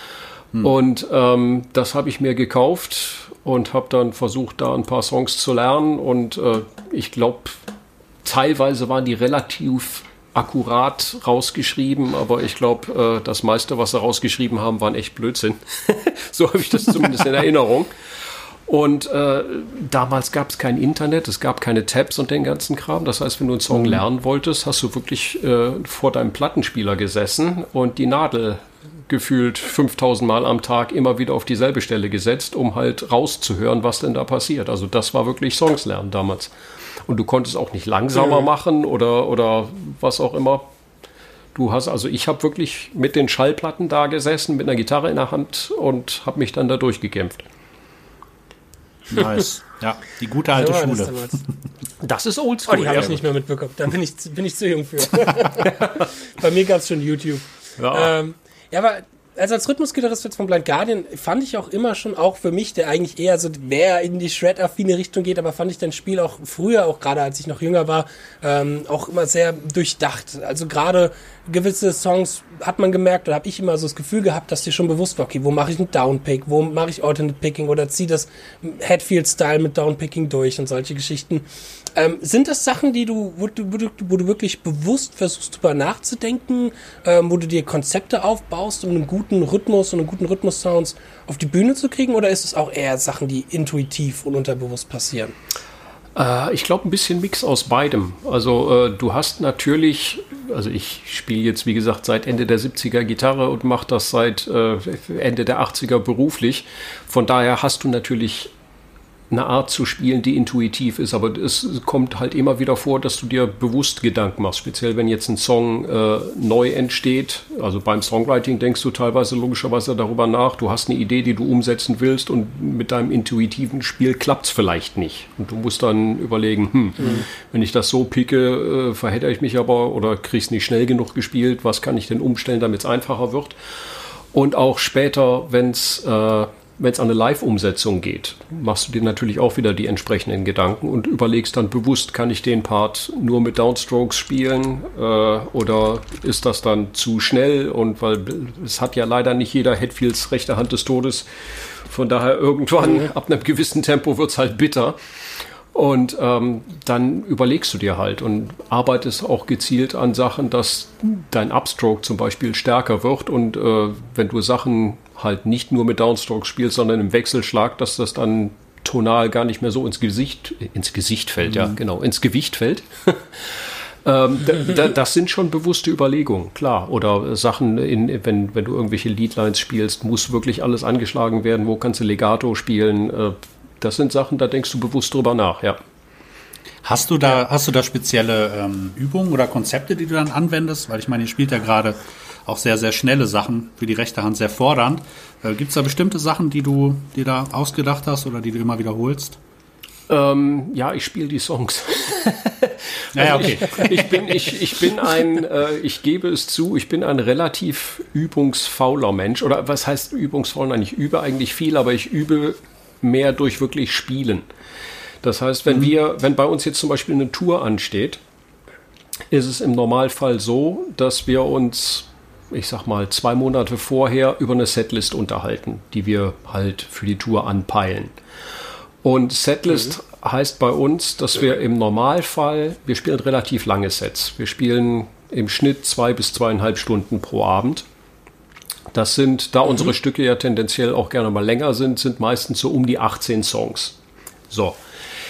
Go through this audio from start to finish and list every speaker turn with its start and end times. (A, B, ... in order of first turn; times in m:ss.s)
0:00.6-0:07.6 A
0:08.2-0:17.9 A
0:18.7-0:36.5 A
0:23.7-0:24.0 B
0:37.1-0:40.7 A
0:41.5-0:47.4 A
0:49.1-0:51.5 B
0:50.5-0:51.4 C
0:52.0-0:53.2 A
0:52.7-1:21.4 C
0:57.8-0:58.1 A
1:22.0-1:35.3 C
1:36.2-1:48.5 A
1:49.3-2:35.0 A
2:35.7-3:05.8 A
3:06.8-3:19.4 B
3:20.1-3:34.4 A
3:23.1-3:24.5 B
3:35.2-3:38.2 A
3:39.3-3:48.1 A
3:49.0-3:57.8 A
3:58.9-4:04.0 A
4:04.5-4:04.8 A